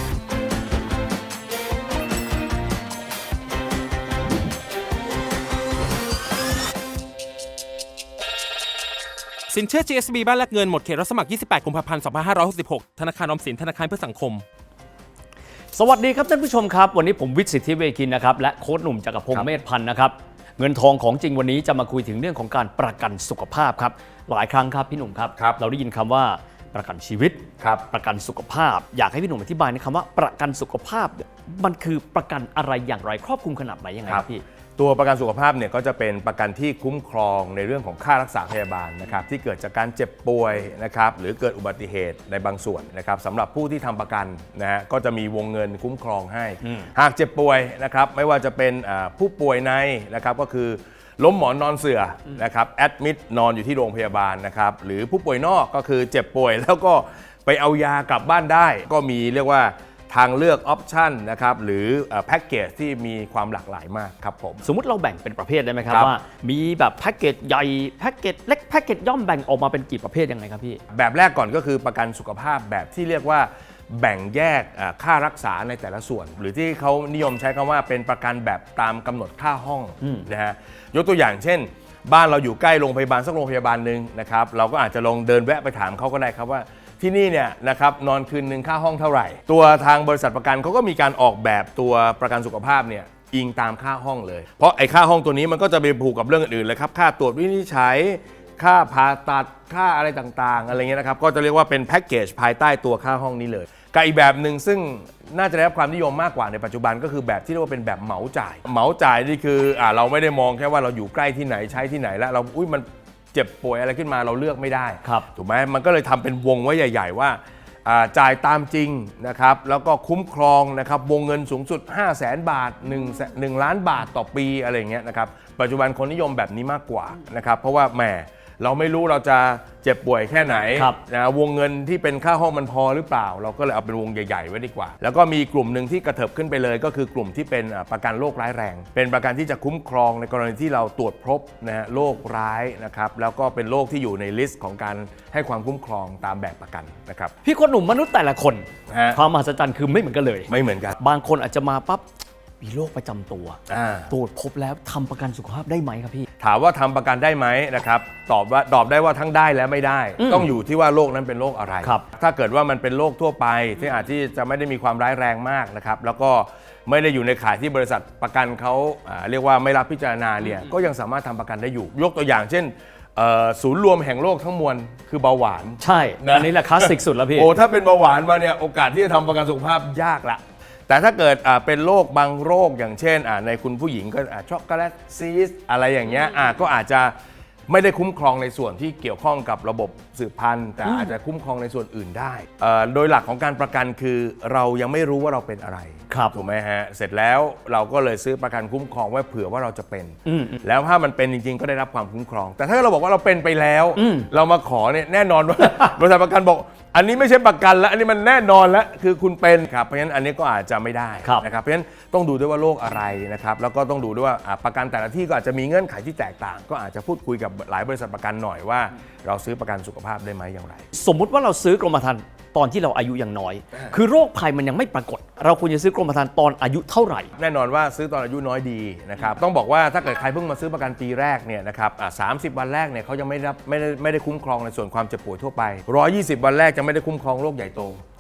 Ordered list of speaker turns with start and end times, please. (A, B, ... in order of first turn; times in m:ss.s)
0:09.5-0:14.4 A
0:15.7-0:34.4 B
0:34.8-1:04.6 C
1:04.6-1:10.8 B
1:10.9-2:27.3 C
2:27.4-2:32.0 B
2:28.9-2:29.2 C
2:30.5-2:31.0 C
2:32.6-2:36.3 B
2:33.7-2:34.1 C
2:36.4-3:07.1 C
2:40.2-2:40.5 B
2:55.8-2:57.5 B
3:07.7-3:40.9 C
3:16.1-3:16.4 B
3:20.2-3:20.6 B
3:24.0-3:24.3 B
3:40.9-3:47.3 B
3:47.4-3:58.0 C